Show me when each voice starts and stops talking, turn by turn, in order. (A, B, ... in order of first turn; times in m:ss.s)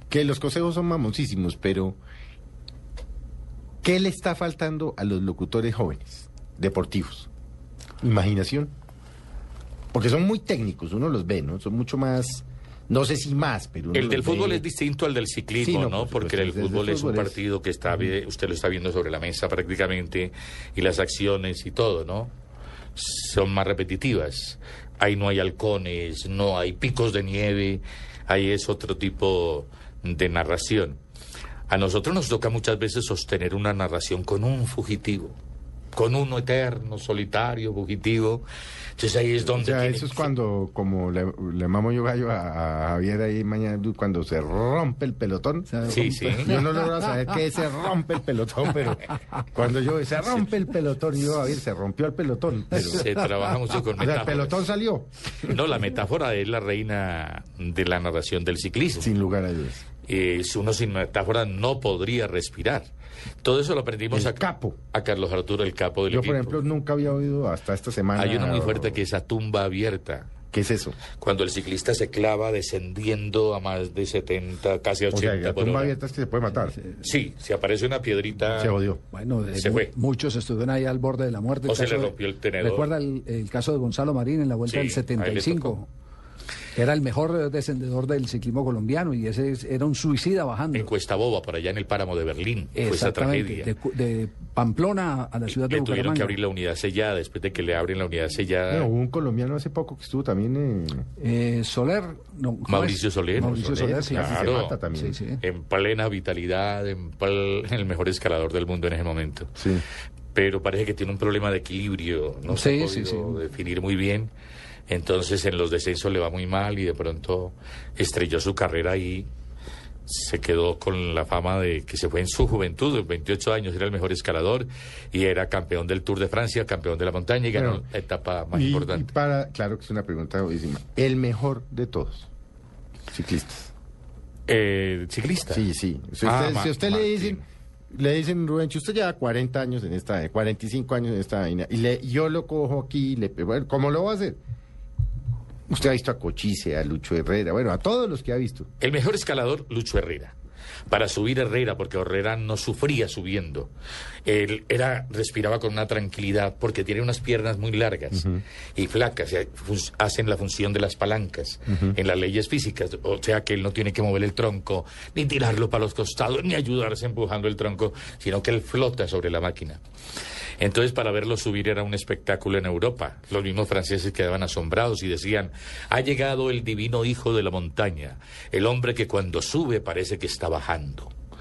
0:00.1-0:02.0 A
0:03.8-0:07.3 A
0:08.0-0:08.7 A
0:09.9-0:14.6 A
0:13.9-0:22.3 B
0:15.6-0:17.4 A
0:22.9-0:31.0 B
0:31.7-0:35.4 B
0:35.9-0:38.4 B
0:39.0-0:40.3 B
0:39.5-0:53.1 A
0:45.7-0:47.4 C
0:45.8-0:46.6 B
0:52.7-0:54.7 B
0:54.0-0:55.5 A
0:55.4-0:59.1 B
0:58.9-0:59.8 A
1:00.0-1:02.9 B
1:03.4-1:06.6 B
1:04.1-1:04.8 A
1:06.1-1:09.0 A
1:08.1-1:10.3 B
1:10.5-1:11.0 A
1:11.1-1:16.0 B
1:15.1-1:16.8 A
1:17.0-1:18.8 B
1:18.6-1:19.0 A
1:19.1-1:25.9 C
1:19.5-1:19.9 B
1:21.7-1:22.9 B
1:24.7-1:25.8 B
1:26.7-1:30.9 C
1:30.7-1:33.7 B
1:32.7-1:36.4 C
1:35.5-1:38.9 B
1:38.7-1:41.0 A
1:41.2-1:45.4 C
1:42.7-1:44.8 B
1:43.5-1:45.2 A
1:45.4-1:49.5 B
1:49.6-1:49.8 A
1:50.3-1:54.3 B
1:52.5-1:53.4 C
1:54.9-1:59.3 B
2:00.0-2:09.1 B
2:07.5-2:07.8 A
2:08.5-2:12.3 A
2:13.1-2:13.7 A
2:14.5-2:15.7 B
2:15.5-2:24.4 A
2:16.2-2:17.4 B
2:25.7-2:28.7 A
2:28.8-2:30.3 B
2:30.9-2:33.7 B
2:34.2-2:49.8 B
2:38.1-2:38.4 A
2:41.7-2:42.0 A
2:50.6-3:01.1 B